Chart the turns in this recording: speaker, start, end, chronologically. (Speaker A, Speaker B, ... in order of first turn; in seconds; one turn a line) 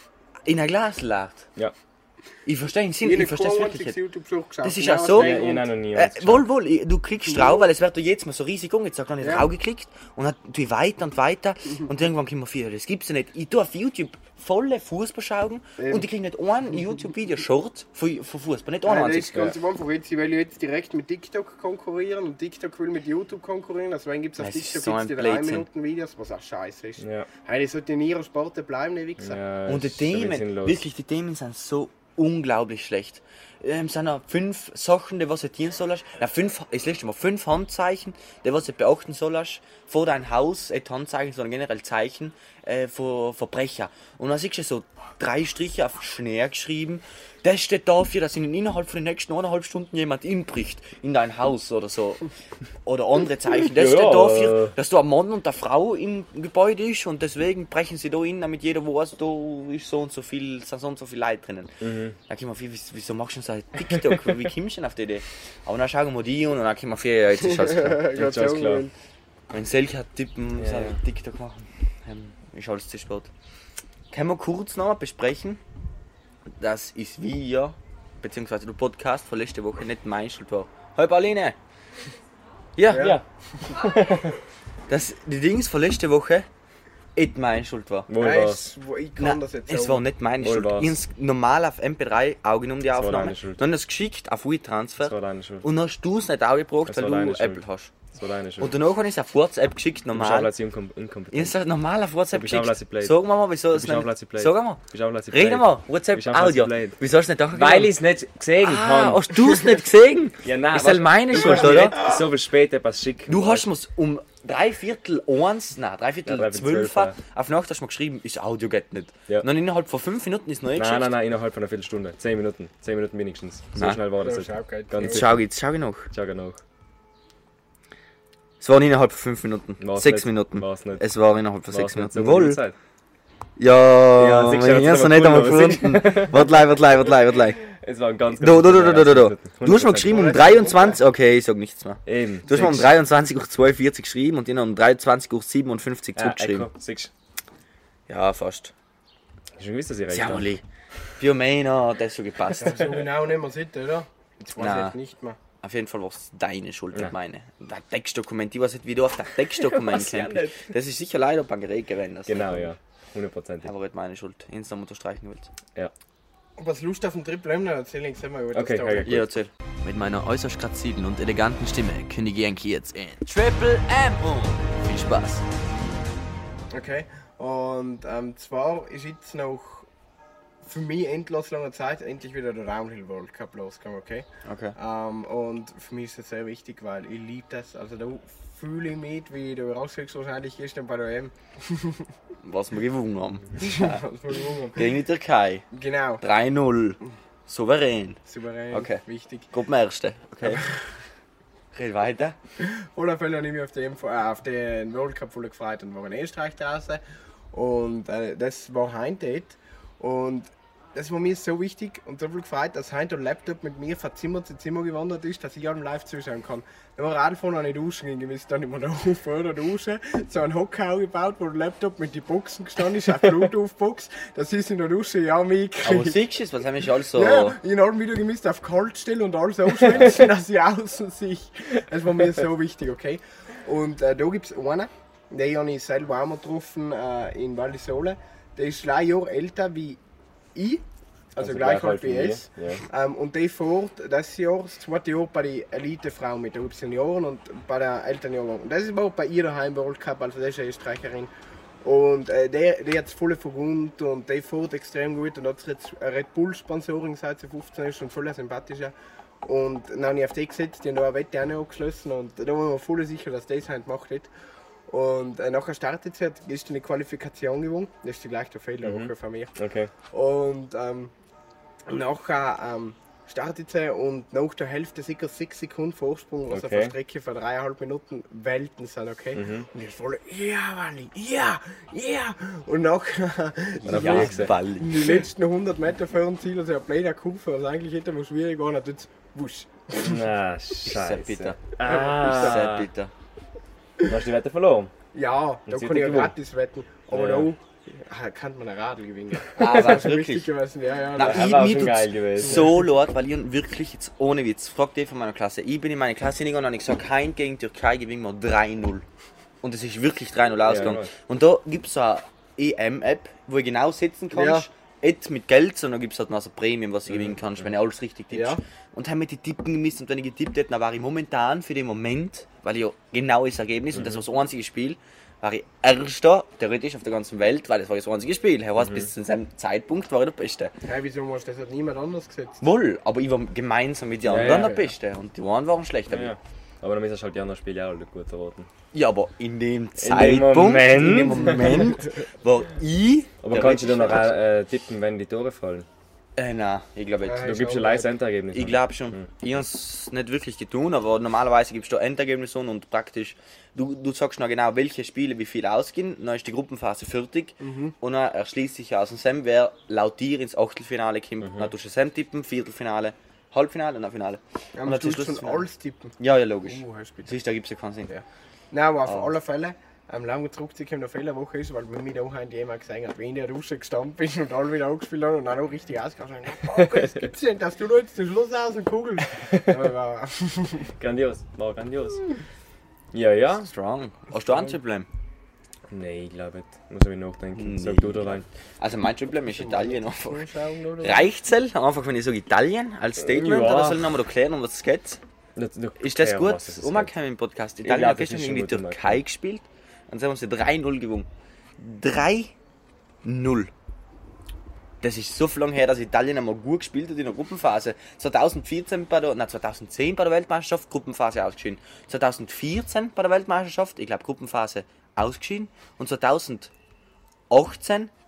Speaker A: 0.5-1.5
Speaker A: 2.5-4.0
Speaker B: 3.0-5.7
Speaker A: 4.6-19.5
Speaker C: 5.1-6.5
Speaker B: 9.2-9.5
Speaker B: 15.8-16.1
Speaker B: 18.8-29.4
Speaker A: 24.4-25.7
Speaker C: 27.0-27.3
Speaker C: 29.2-30.8
Speaker A: 29.7-52.3
Speaker A: 52.8-61.7
Speaker C: 53.7-54.7
Speaker C: 61.8-62.2
Speaker A: 62.3-68.1
Speaker B: 67.4-68.9
Speaker C: 68.1-68.8
Speaker A: 69.5-73.3
Speaker C: 70.6-71.0
Speaker A: 74.1-75.6
Speaker A: 76.6-81.6
Speaker A: 82.8-83.2
Speaker B: 82.9-83.2
Speaker C: 82.9-84.4
Speaker A: 84.9-86.5
Speaker A: 87.2-88.1
Speaker C: 88.1-88.7
Speaker B: 88.2-90.0
Speaker A: 89.2-98.0
Speaker C: 90.4-91.0
Speaker C: 92.9-93.6
Speaker C: 95.0-95.7
Speaker C: 96.9-98.8
Speaker A: 98.6-100.5
Speaker C: 100.1-101.6
Speaker A: 101.3-108.0
Speaker C: 102.3-103.2
Speaker C: 103.7-107.0
Speaker C: 107.5-109.6
Speaker A: 108.6-112.2
Speaker C: 110.4-113.7
Speaker A: 113.3-121.1
Speaker C: 116.3-117.2
Speaker C: 120.8-125.4
Speaker A: 123.8-124.0
Speaker B: 124.2-125.2
Speaker A: 125.0-126.1
Speaker C: 126.1-126.6
Speaker A: 128.6-132.6
Speaker C: 129.8-131.1
Speaker C: 131.7-132.8
Speaker A: 133.6-137.7
Speaker C: 134.2-136.5
Speaker C: 137.6-140.4
Speaker A: 138.3-146.7
Speaker B: 140.1-141.0
Speaker C: 142.1-142.9
Speaker C: 146.2-147.1
Speaker A: 148.1-148.7
Speaker C: 149.6-150.5
Speaker A: 150.1-150.6
Speaker A: 151.2-152.9
Speaker B: 152.6-155.4
Speaker A: 154.6-155.0
Speaker A: 155.6-162.7
Speaker C: 159.6-160.7
Speaker C: 162.3-163.7
Speaker A: 163.6-165.5
Speaker B: 166.6-169.2
Speaker C: 168.5-169.2
Speaker A: 169.1-175.4
Speaker B: 176.7-179.9
Speaker B: 180.6-184.2
Speaker A: 184.5-184.8
Speaker B: 184.8-192.1
Speaker A: 192.4-194.0
Speaker B: 193.6-194.9
Speaker A: 194.7-195.7
Speaker B: 195.7-196.2
Speaker A: 196.2-198.2
Speaker B: 198.3-199.5
Speaker A: 198.7-200.8
Speaker B: 200.4-200.7
Speaker A: 201.7-202.4
Speaker B: 202.6-207.0
Speaker B: 207.5-226.2
Speaker A: 225.8-227.6
Speaker B: 227.1-240.0
Speaker B: 240.6-240.8
Speaker B: 241.3-251.3
Speaker C: 241.4-242.8
Speaker B: 251.8-264.3
Speaker B: 264.9-269.5
Speaker C: 268.8-269.9
Speaker B: 270.1-271.1
Speaker B: 271.9-290.2
Speaker C: 276.5-277.0
Speaker C: 279.4-279.7
Speaker A: 283.8-285.2
Speaker C: 283.9-284.5
Speaker C: 289.9-292.9
Speaker A: 290.8-293.1
Speaker B: 291.8-292.6
Speaker C: 294.0-294.9
Speaker B: 295.1-302.8
Speaker C: 295.7-296.3
Speaker C: 297.1-297.5
Speaker A: 299.6-300.5
Speaker A: 301.1-309.0
Speaker C: 301.2-302.7
Speaker A: 309.6-330.7
Speaker C: 310.6-311.1
Speaker B: 314.3-314.6
Speaker B: 318.3-318.6
Speaker B: 330.9-332.6
Speaker A: 332.6-336.3
Speaker C: 334.3-334.8
Speaker B: 334.3-334.9
Speaker C: 336.1-338.7
Speaker A: 338.9-344.3
Speaker C: 340.0-342.0
Speaker C: 343.4-345.9
Speaker A: 346.4-347.5
Speaker B: 347.2-348.1
Speaker C: 347.4-349.3
Speaker A: 348.5-365.6
Speaker B: 357.6-357.9
Speaker B: 364.8-366.1
Speaker A: 366.2-368.1
Speaker B: 366.7-367.4
Speaker B: 368.1-380.9
Speaker C: 376.7-377.3
Speaker C: 381.0-382.2
Speaker C: 383.1-383.7
Speaker A: 383.6-385.1
Speaker C: 385.9-388.4
Speaker A: 387.6-390.5
Speaker B: 389.5-391.3
Speaker A: 391.0-395.2
Speaker C: 393.2-394.0
Speaker C: 395.6-397.1
Speaker A: 396.0-401.3
Speaker C: 397.8-399.2
Speaker A: 401.8-402.5
Speaker A: 403.2-403.7
Speaker A: 405.0-416.7
Speaker A: 417.5-418.1